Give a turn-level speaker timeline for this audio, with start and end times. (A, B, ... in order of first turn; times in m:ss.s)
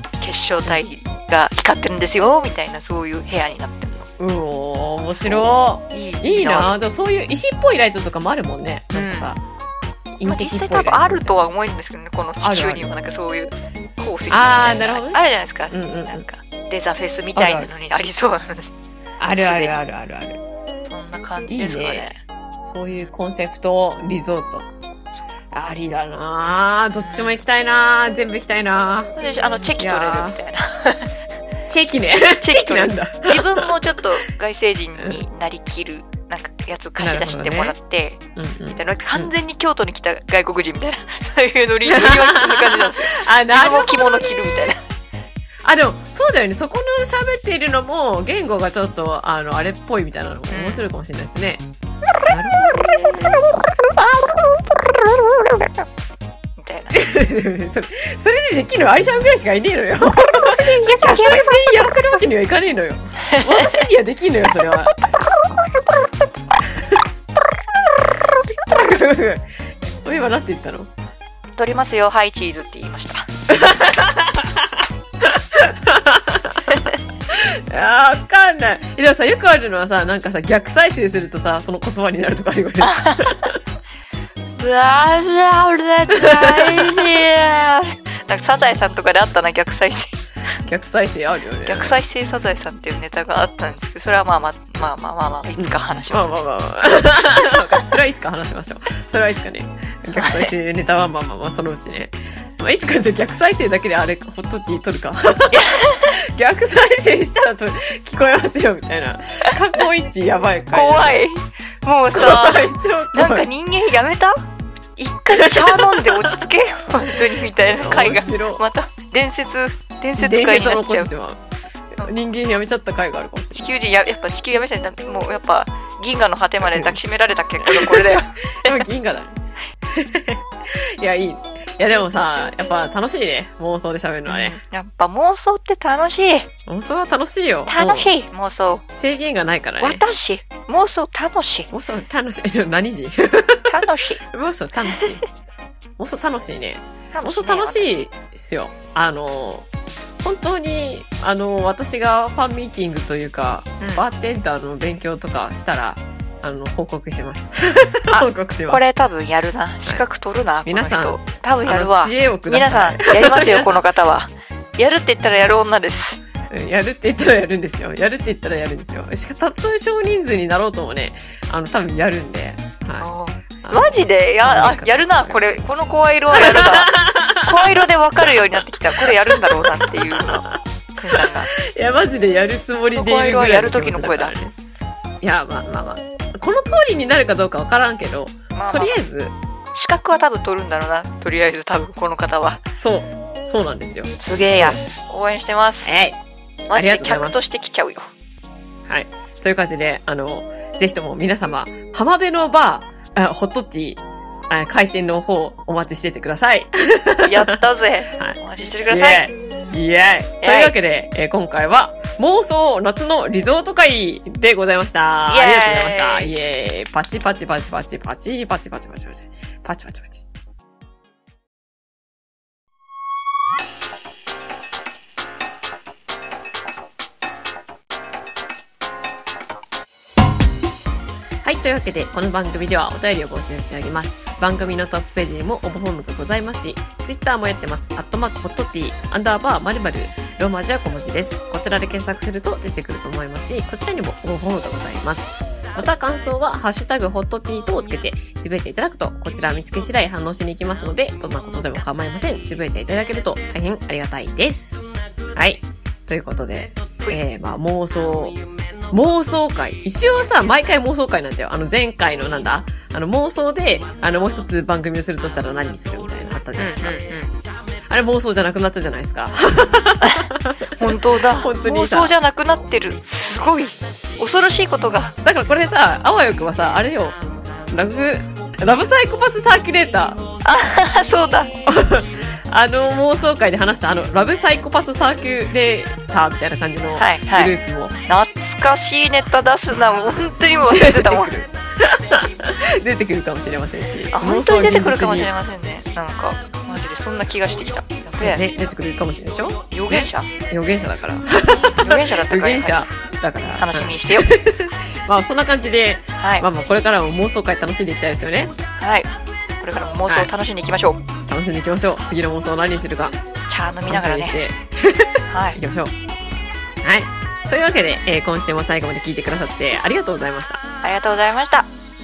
0:00.2-0:04.1 A
0:04.2-0:09.4 B
0:05.1-0:06.8 A
0:08.9-0:09.3 A
0:10.2-0:11.4 B
0:10.2-0:18.7 A
0:12.4-0:12.9 B
0:14.3-0:15.2 B
0:15.7-0:16.2 B
0:17.4-0:17.7 B
0:19.2-0:20.4 B
0:19.4-0:19.7 A
0:20.9-0:22.2 A
0:21.5-0:22.1 B
0:22.6-0:24.7 B
0:25.5-0:29.1 B
0:27.0-0:27.4 A
0:29.2-0:31.1 A
0:29.8-0:30.4 B
0:31.7-0:33.7 B
0:32.4-0:44.8 A
0:37.0-0:37.8 B
0:38.4-0:39.3 B
0:41.9-0:44.7 B
0:45.6-0:51.6 B
0:50.5-0:50.9 A
0:52.3-0:53.5 B
0:52.6-0:55.8 A
0:56.6-0:57.1 A
0:56.9-1:05.0 B
1:00.5-1:01.8 A
1:03.3-1:03.9 A
1:04.9-1:06.2 A
1:08.3-1:08.6 A
1:08.6-1:09.5 B
1:10.0-1:10.9 B
1:11.6-1:13.9 A
1:13.5-1:23.6 B
1:22.8-1:23.5 A
1:24.6-1:30.2 A
1:26.2-1:27.1 B
1:30.6-1:32.0 B
1:31.7-1:36.4 A
1:35.6-1:51.2 B
1:37.4-1:37.8 A
1:40.1-1:40.5 A
1:45.5-1:46.2 A
1:50.7-1:54.4 A
1:52.1-1:53.5 B
1:55.0-2:01.1 A
1:55.4-1:56.3 B
1:57.6-1:58.6 B
2:00.2-2:01.4 B
2:02.0-2:03.7 B
2:03.5-2:08.8 A
2:06.7-2:07.0 B
2:07.6-2:09.4 B
2:09.9-2:14.6 B
2:14.3-2:16.5 A
2:16.7-2:18.1 B
2:17.7-2:18.8 A
2:18.9-2:20.0 B
2:19.8-2:21.7 A
2:21.7-2:25.2 B
2:23.7-2:24.2 A
2:26.0-2:29.7 B
2:27.1-2:28.1 A
2:30.2-2:38.8 B
2:33.8-2:34.0 A
2:38.1-2:46.2 A
2:40.6-2:43.8 B
2:46.5-2:53.1 B
2:53.0-3:01.5 A
2:53.6-2:55.5 B
2:56.3-3:04.6 B
3:02.9-3:04.3 A
3:05.2-3:09.4 B
3:08.5-3:09.0 A
3:09.7-3:12.7 A
3:12.7-3:14.8 B
3:14.2-3:16.0 A
3:15.8-3:16.2 B
3:16.7-3:18.1 A
3:16.7-3:17.4 B
3:18.9-3:27.6 B
3:27.2-3:29.3 A
3:28.9-3:40.2 B
3:30.4-3:30.7 A
3:35.3-3:36.3 A
3:51.4-4:14.8 B
4:15.4-4:18.4 B
4:18.9-4:27.0 B
4:26.6-4:27.3 A
4:27.9-4:32.1 B
4:30.8-4:35.2 A
4:35.2-4:37.2 B
4:37.7-4:40.2 B
4:40.4-4:41.6 A
4:41.7-4:48.0 B
4:46.9-4:47.5 A
4:48.1-4:51.3 A
4:50.7-4:55.3 B
4:54.1-4:58.4 A
4:58.2-5:08.5 B
4:59.7-5:00.3 A
5:01.8-5:02.9 A
5:03.6-5:04.3 A
5:06.2-5:06.5 A
5:08.8-5:11.0 A
5:11.3-5:13.2 B
5:13.5-5:14.4 A
5:13.9-5:15.9 B
5:15.3-5:15.6 A
5:16.8-5:20.6 B
5:20.8-5:21.7 A